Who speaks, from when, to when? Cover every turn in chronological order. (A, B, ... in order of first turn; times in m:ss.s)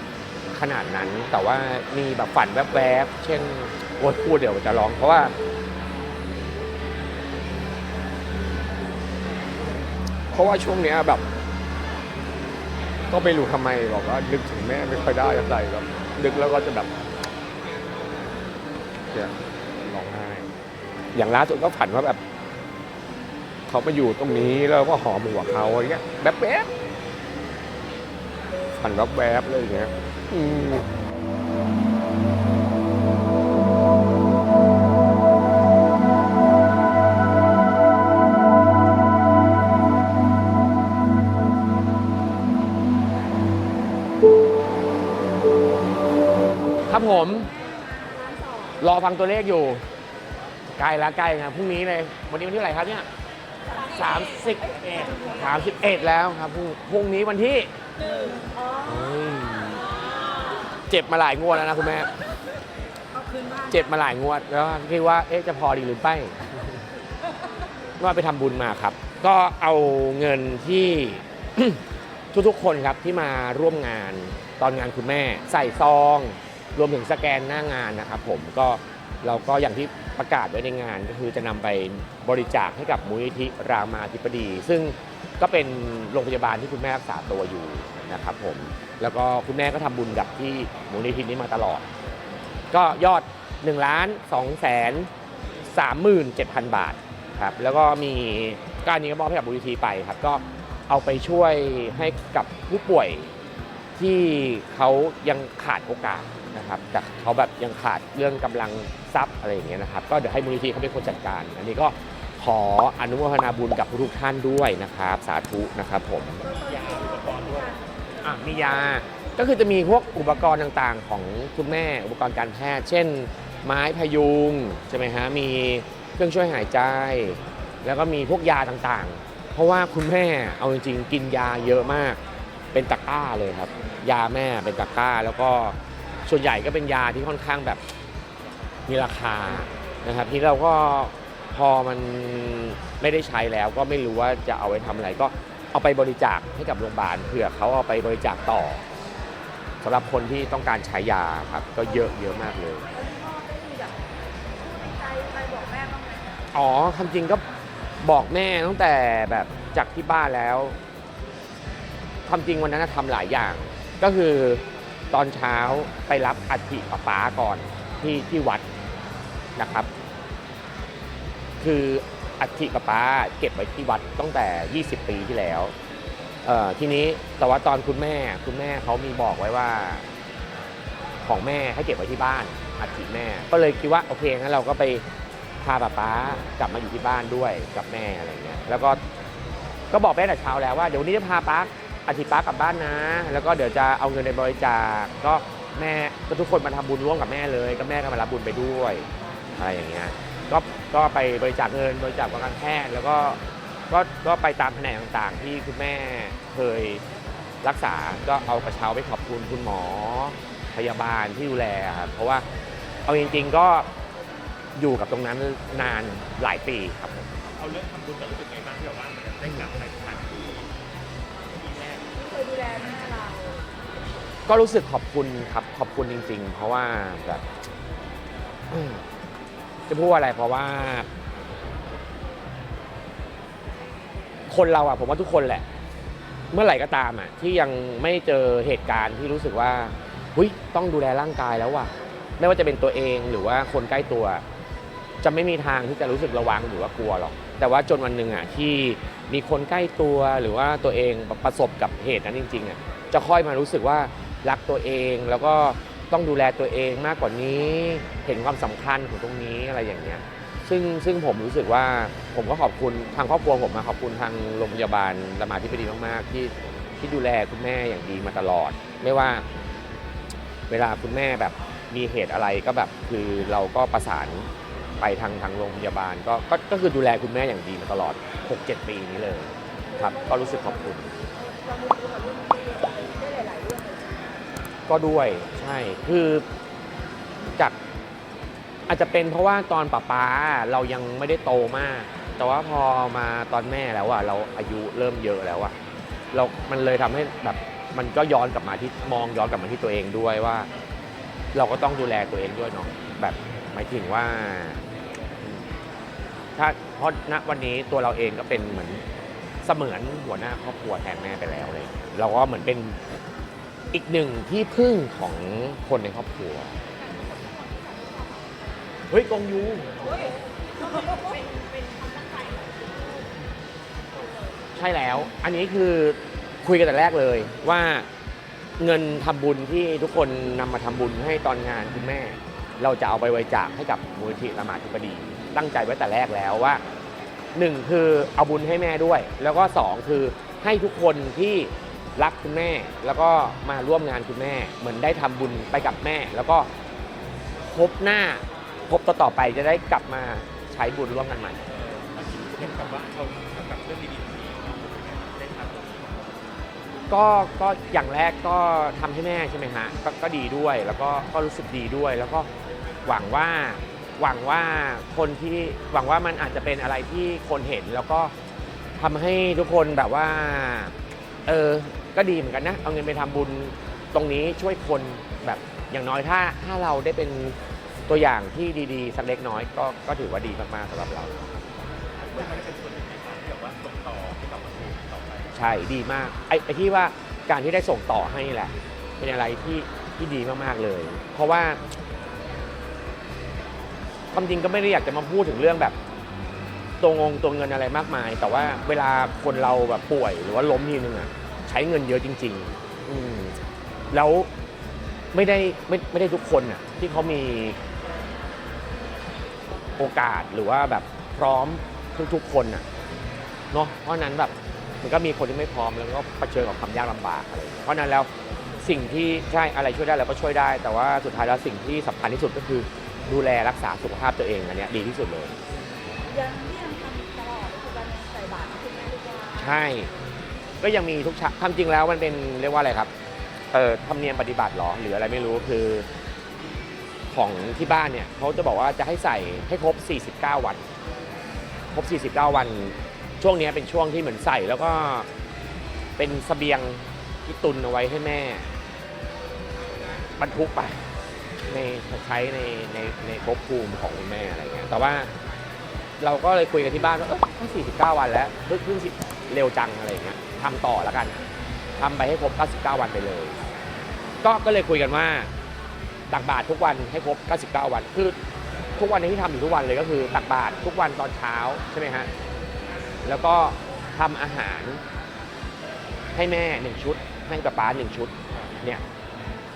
0:00.5-0:05.3 A
0:10.3-0:11.2 A
0:13.1-0:16.9 A
0:19.1-0:20.5 A
0:21.1-0:22.2 A
0:23.7-0:26.7 A
0:28.8-0:30.8 A
0:46.8-0:47.5 A
0:47.5-0:48.7 B
0:48.8-0:49.8 A
0:50.7-0:53.1 A
0:53.8-0:59.8 A
1:00.9-1:02.1 A
1:03.5-1:06.5 A
1:08.0-1:31.9 A
1:32.7-1:35.1 A
1:35.6-1:43.3 A
1:44.0-1:56.4 A
1:56.3-1:57.8 C
1:56.5-1:57.8 B
1:58.2-2:12.2 A
2:12.7-2:17.8 A
2:18.9-2:28.8 A
2:29.8-2:32.9 A
2:32.9-2:36.4 B
2:36.5-2:37.4 A
2:38.0-2:40.8 A
2:42.3-2:48.6 A
2:49.6-2:49.9 A
2:51.6-2:55.7 A
2:56.4-3:00.1 A
3:01.2-3:05.0 A
3:05.6-3:09.0 A
3:09.9-3:27.0 A
3:27.6-3:32.4 A
3:33.0-3:33.9 A
3:34.8-3:37.3 A
3:37.6-3:40.7 C
3:41.4-3:42.1 C
3:42.1-3:43.7 B
3:44.5-3:47.4 A
3:48.7-3:49.0 A
3:49.9-3:51.1 A
3:54.5-3:55.6 A
3:56.5-4:04.4 A
4:05.2-4:29.4 A
4:30.7-4:34.5 A
4:35.0-4:41.2 A
4:39.9-4:44.4 B
4:44.9-4:46.4 A
4:48.9-4:55.8 A
4:56.3-5:00.7 A
5:01.5-5:04.8 A
5:06.6-5:09.0 A
5:09.6-5:13.0 A
5:13.9-5:16.7 A
5:16.9-5:18.5 B
5:19.1-5:20.1 A
5:20.1-5:23.2 B
5:24.1-5:24.7 B
5:24.7-5:28.1 A
5:28.8-5:36.8 A
5:37.5-5:46.7 A
5:47.6-5:51.6 A
5:51.7-5:56.3 C
5:57.1-6:02.5 A
6:03.0-6:08.3 A
6:09.0-6:17.6 A
6:18.1-6:21.5 A
6:22.2-6:25.5 C
6:25.5-6:31.8 A
6:34.3-6:36.0 A
6:37.0-6:43.6 A
6:44.1-6:44.5 A
6:45.3-6:47.8 A
6:50.0-6:52.8 A
6:53.7-6:58.3 A
6:58.8-7:05.6 A
7:06.2-7:09.8 B
7:09.6-7:10.1 A
7:10.8-7:13.1 A
7:13.7-7:16.1 A
7:17.3-7:20.8 A
7:21.9-7:25.3 A
7:26.2-7:28.7 A
7:30.4-7:31.0 A
7:31.7-7:35.3 A
7:36.2-7:41.4 A
7:42.0-7:43.6 A
7:44.4-7:45.5 A
7:46.3-7:48.4 A
7:49.0-7:52.3 A
7:53.2-7:55.0 A
7:56.3-7:59.0 A